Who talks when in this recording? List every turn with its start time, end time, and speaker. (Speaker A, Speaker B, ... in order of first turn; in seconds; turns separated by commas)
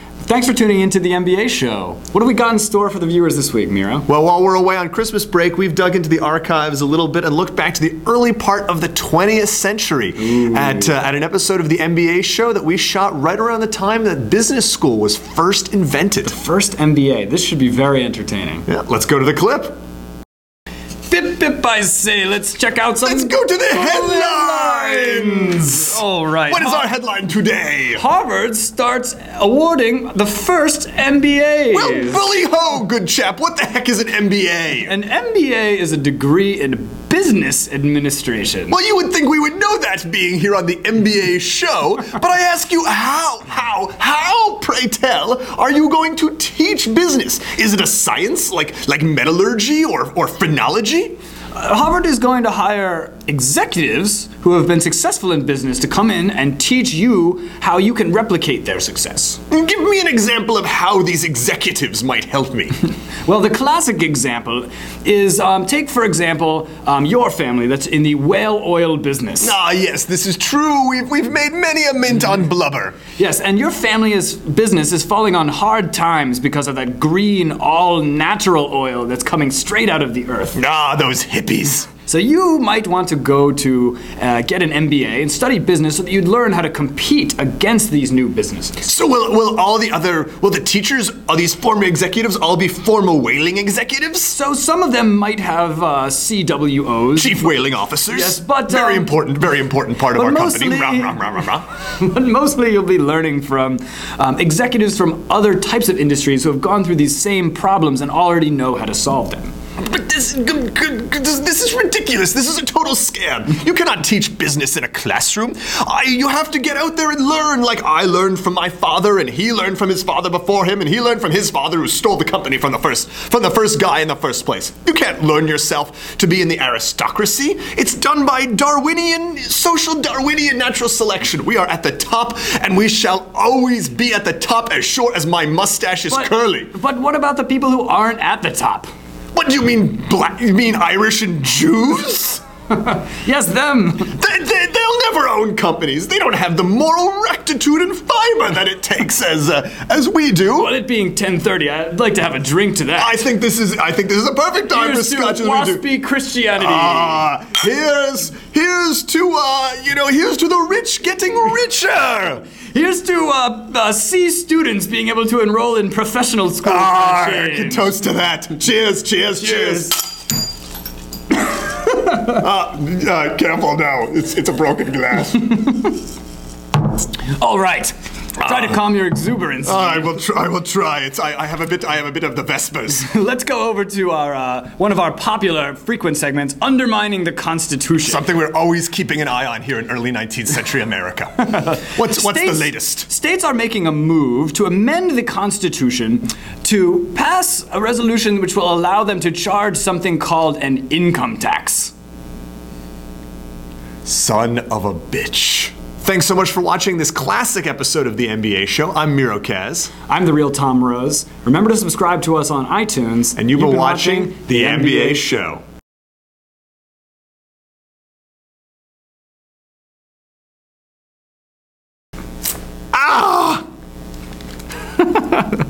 Speaker A: 0.2-4.0, Speaker B: 4.1-16.3, Speaker A: 10.2-10.9, Speaker A: 16.2-18.7, Speaker B: 18.7-19.8, Speaker A: 21.1-26.9, Speaker B: 23.0-28.0, Speaker A: 27.9-32.2, Speaker B: 31.7-34.9, Speaker A: 34.9-38.8, Speaker B: 38.7-51.2, Speaker A: 51.5-59.4, Speaker B: 59.5-62.8, Speaker A: 63.2-69.5, Speaker B: 69.4-73.0, Speaker A: 73.2-80.6, Speaker B: 80.5-81.9, Speaker A: 82.0-88.8, Speaker B: 88.8-94.4, Speaker A: 94.3-97.4, Speaker B: 97.2-101.6, Speaker A: 98.1-99.1, Speaker A: 100.1-101.4, Speaker A: 101.9-109.5, Speaker B: 109.8-136.7, Speaker A: 136.1-138.9, Speaker B: 139.3-142.4, Speaker A: 142.7-144.1, Speaker B: 144.1-150.7, Speaker A: 150.5-153.1, Speaker B: 153.0-155.8, Speaker A: 154.7-157.2, Speaker B: 156.6-162.4, Speaker A: 162.6-167.9, Speaker B: 166.6-169.9, Speaker A: 169.4-170.0, Speaker B: 171.9-175.7, Speaker A: 175.6-175.9, Speaker A: 177.2-180.2, Speaker B: 178.4-178.8, Speaker B: 179.6-183.1, Speaker A: 183.0-188.2, Speaker B: 188.0-193.1, Speaker A: 191.6-201.9, Speaker B: 204.0-209.9, Speaker A: 210.1-215.3, Speaker B: 213.3-215.6, Speaker B: 222.9-223.6